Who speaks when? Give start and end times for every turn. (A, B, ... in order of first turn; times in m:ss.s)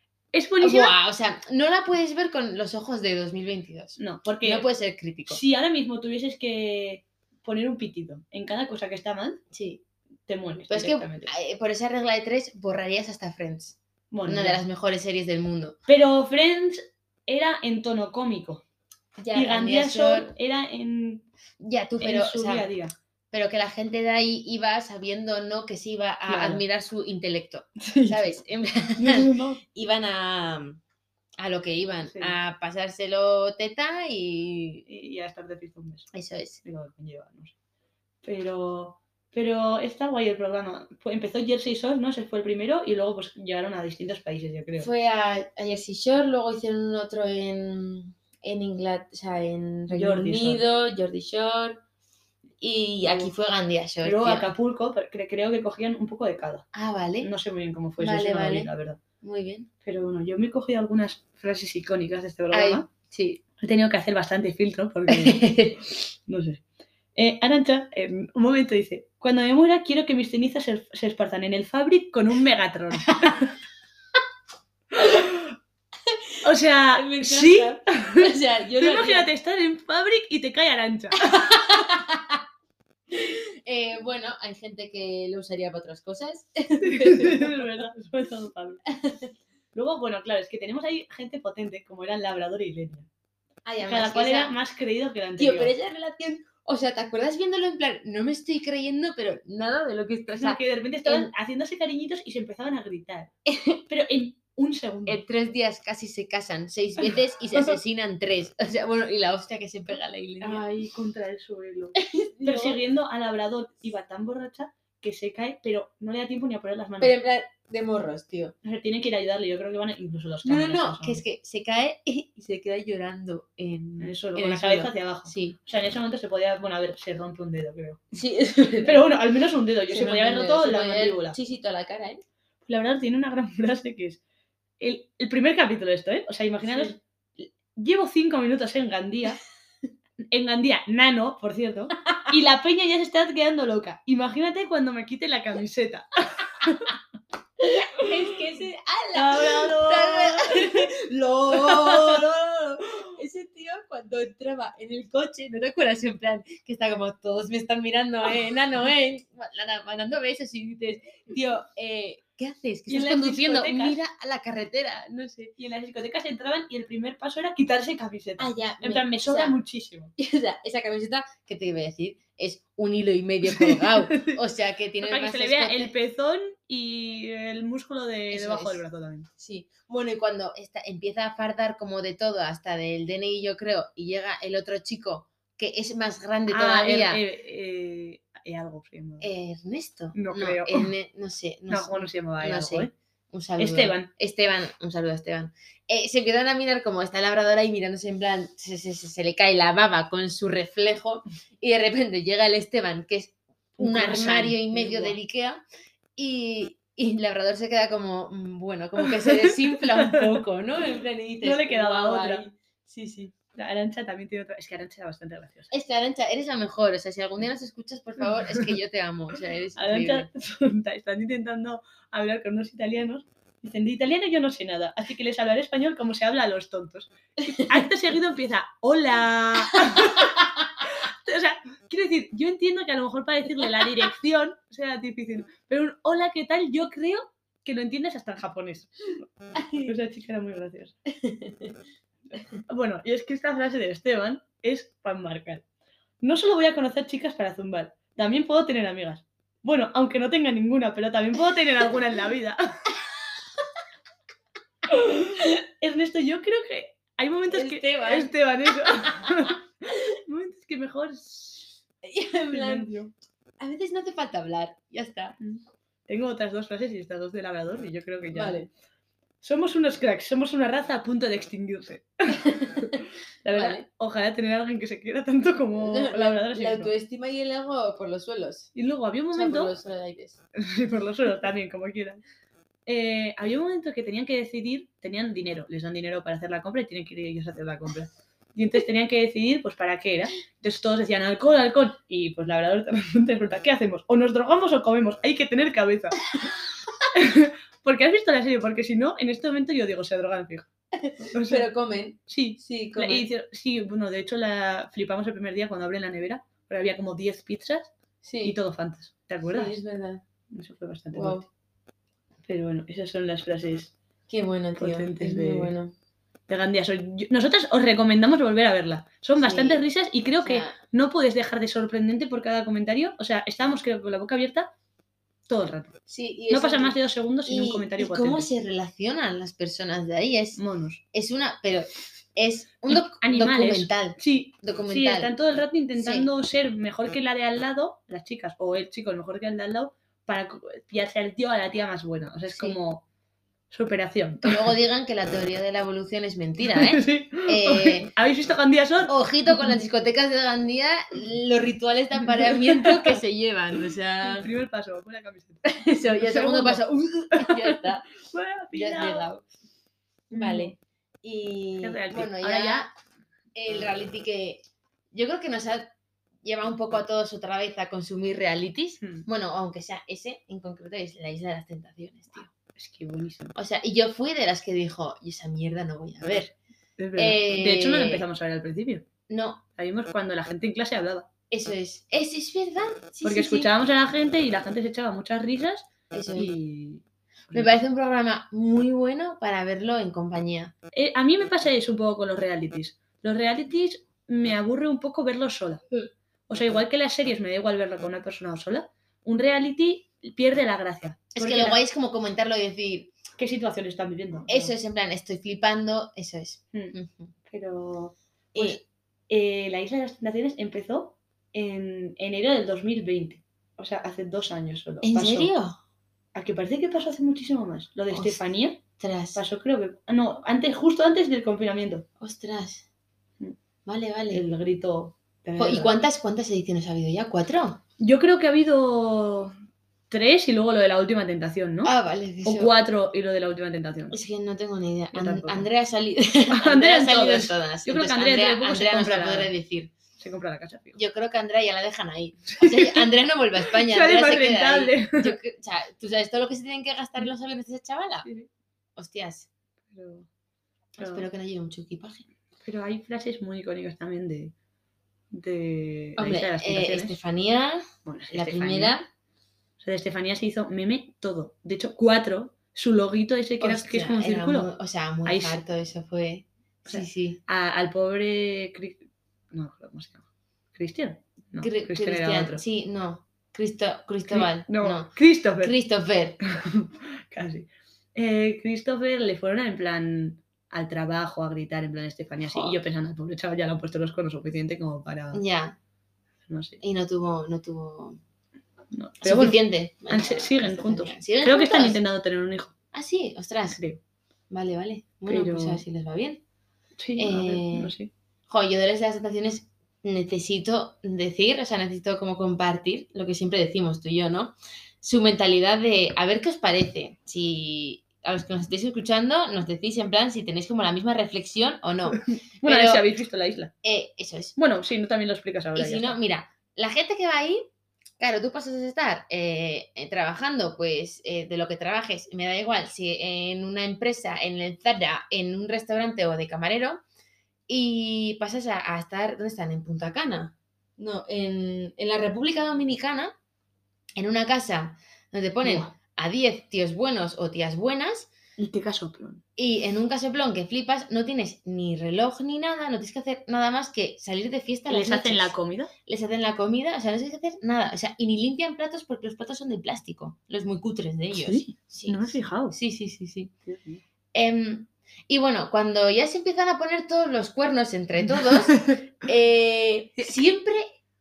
0:00.3-0:01.0 A
0:00.6-0:05.4 B
0:04.0-0:04.7 A
0:05.3-0:09.4 A
0:09.5-0:09.8 B
0:10.3-0:11.3 A
0:10.7-0:15.8 B
0:14.1-0:14.6 A
0:15.9-0:18.6 A
0:19.2-0:20.3 B
0:19.3-0:21.3 A
0:21.6-0:22.7 B
0:22.0-0:22.9 A
0:23.3-0:30.8 B
0:26.3-0:26.6 A
0:27.8-0:28.3 A
0:29.0-0:29.6 A
0:31.4-0:34.9 B
0:32.0-0:32.4 A
0:34.9-0:36.1 A
0:36.1-0:36.6 B
0:36.6-0:37.5 A
0:38.2-0:44.9 A
0:44.8-0:51.8 B
0:49.9-0:50.6 A
0:52.6-0:54.5 B
0:53.0-0:53.3 A
0:54.0-0:56.7 A
0:56.7-0:57.3 B
0:57.2-0:59.0 A
0:58.0-0:58.7 B
0:59.2-0:59.7 B
0:59.8-1:02.9 A
1:02.5-1:03.4 B
1:03.6-1:05.4 A
1:05.1-1:06.1 B
1:06.3-1:06.6 A
1:07.2-1:13.5 A
1:15.0-1:15.5 A
1:16.4-1:18.3 A
1:16.9-1:19.3 B
1:18.8-1:21.4 A
1:21.2-1:22.4 B
1:23.1-1:27.8 B
1:26.8-1:28.8 A
1:28.9-1:29.3 B
1:29.7-1:33.1 A
1:33.6-1:34.6 B
1:33.8-1:35.7 A
1:35.4-1:41.3 B
1:40.3-1:43.3 A
1:43.5-1:43.8 B
1:43.9-1:45.2 A
1:45.1-1:50.6 B
1:47.1-1:47.8 A
1:50.4-1:57.2 A
1:52.0-1:52.8 B
1:57.0-1:58.6 B
1:58.6-2:01.2 A
2:00.4-2:05.6 B
2:04.0-2:08.0 A
2:08.1-2:09.1 B
2:08.8-2:11.4 A
2:09.9-2:12.2 B
2:12.6-2:14.2 A
2:14.8-2:19.4 A
2:16.6-2:17.0 B
2:20.3-2:26.9 A
2:22.0-2:22.3 B
2:27.6-2:45.5 B
2:29.2-2:30.9 A
2:31.5-2:32.3 A
2:42.9-2:44.0 A
2:45.6-2:50.1 A
2:48.4-2:49.6 B
2:50.2-2:56.0 B
2:53.4-2:54.4 A
2:55.0-2:59.3 A
2:58.3-2:58.8 B
2:59.4-3:07.2 B
3:06.5-3:09.3 A
3:09.2-3:25.6 B
3:10.1-3:10.9 A
3:11.7-3:12.9 A
3:13.6-3:14.1 A
3:23.8-3:25.2 A
3:26.2-3:33.3 B
3:29.0-3:30.4 A
3:31.4-3:32.5 A
3:33.5-3:35.7 A
3:35.7-3:40.3 B
3:39.8-4:01.0 A
3:59.6-3:59.9 B
4:01.1-4:01.8 B
4:02.7-4:05.6 A
4:06.2-4:12.9 A
4:14.9-4:21.8 A
4:17.5-4:19.5 B
4:22.0-4:22.9 B
4:22.5-4:23.1 A
4:23.6-4:25.4 B
4:25.4-4:28.6 A
4:28.3-4:28.7 B
4:29.4-4:36.9 A
4:32.3-4:33.8 B
4:35.8-4:38.7 B
4:38.8-4:39.7 A
4:39.3-4:40.4 B
4:40.6-4:42.2 A
4:42.9-4:56.2 A
4:57.1-5:00.7 A
5:01.0-5:03.3 B
5:01.3-5:01.7 A
5:02.3-5:07.9 A
5:08.2-5:08.6 B
5:08.4-5:09.8 A
5:09.5-5:10.2 B
5:10.5-5:11.4 A
5:11.1-5:11.4 B
5:12.4-5:13.9 A
5:14.3-5:15.9 B
5:14.8-5:15.7 A
5:16.5-5:24.7 A
5:19.4-5:19.8 B
5:20.4-5:20.8 B
5:25.5-5:26.0 A
5:26.1-5:27.0 B
5:26.5-5:28.5 A
5:27.5-5:30.6 B
5:30.6-5:31.0 A
5:31.1-5:35.3 B
5:32.9-5:43.0 A
5:36.0-5:36.3 B
5:42.5-5:42.8 B
5:43.7-5:44.8 A
5:44.4-5:48.1 B
5:46.6-5:49.8 A
5:49.1-5:54.5 B
5:52.2-5:53.2 A
5:54.2-5:59.3 A
5:55.6-5:58.1 B
5:58.7-5:59.4 B
6:00.3-6:00.8 A
6:00.3-6:02.9 B
6:01.8-6:02.9 A
6:03.6-6:05.9 B
6:06.4-6:12.5 B
6:09.0-6:09.3 A
6:12.8-6:13.5 A
6:13.6-6:16.5 B
6:17.0-6:19.1 A
6:17.2-6:18.2 B
6:19.3-6:19.6 B
6:19.8-6:21.3 A
6:21.5-6:23.7 B
6:23.2-6:27.8 A
6:26.1-6:26.6 B
6:27.5-6:30.7 B
6:30.9-6:35.8 A
6:36.5-6:41.8 A
6:41.3-6:43.1 B
6:43.4-6:44.7 A
6:44.5-6:47.3 B
6:47.5-6:55.5 A
6:48.6-6:48.8 B
6:55.0-6:55.8 B
6:56.4-6:58.8 A
6:58.1-6:58.4 B
6:59.0-6:59.4 B
6:59.4-7:02.0 A
7:02.2-7:02.8 B
7:03.9-7:04.4 B
7:04.3-7:06.0 A
7:05.6-7:07.8 B
7:08.0-7:09.6 A
7:10.1-7:11.9 A
7:11.8-7:12.7 B
7:12.4-7:14.2 A
7:14.1-7:19.9 B
7:15.1-7:15.7 A
7:16.5-7:19.5 A
7:20.2-7:21.0 A
7:21.0-7:28.3 B
7:22.6-7:23.0 A
7:23.7-7:25.3 A
7:29.0-7:29.5 B
7:29.9-7:30.3 A
7:31.0-7:32.2 B
7:31.0-7:31.3 A
7:32.6-7:34.5 A
7:35.3-7:37.2 A
7:36.2-7:39.1 B
7:38.0-7:39.0 A
7:39.8-7:44.7 A
7:43.6-7:47.4 B
7:45.2-7:45.6 A
7:46.9-7:50.2 A
7:50.7-7:52.6 A
7:51.6-7:56.4 B
7:54.3-7:55.7 A
7:56.5-8:05.4 A
8:02.4-8:02.8 B
8:05.3-8:05.8 B
8:06.5-8:06.8 A
8:06.8-8:08.2 B
8:08.9-8:12.7 A
8:09.2-8:12.0 B
8:12.9-8:13.8 B
8:13.7-8:14.0 A
8:14.5-8:16.4 B
8:15.3-8:15.8 A
8:17.0-8:18.1 A
8:17.2-8:17.9 B
8:18.5-8:33.0 B
8:32.6-8:33.7 A
8:33.8-8:34.6 B
8:34.6-8:36.2 A
8:35.8-8:37.6 B
8:38.2-8:47.0 B
8:47.7-8:53.3 B
8:54.2-8:58.3 B
8:55.6-8:55.9 A
8:58.6-8:59.4 A
8:59.6-9:05.5 B
9:04.9-9:05.9 A
9:06.1-9:13.5 B
9:11.3-9:12.8 A
9:13.7-9:14.0 A
9:14.3-9:20.9 B
9:18.3-9:19.0 A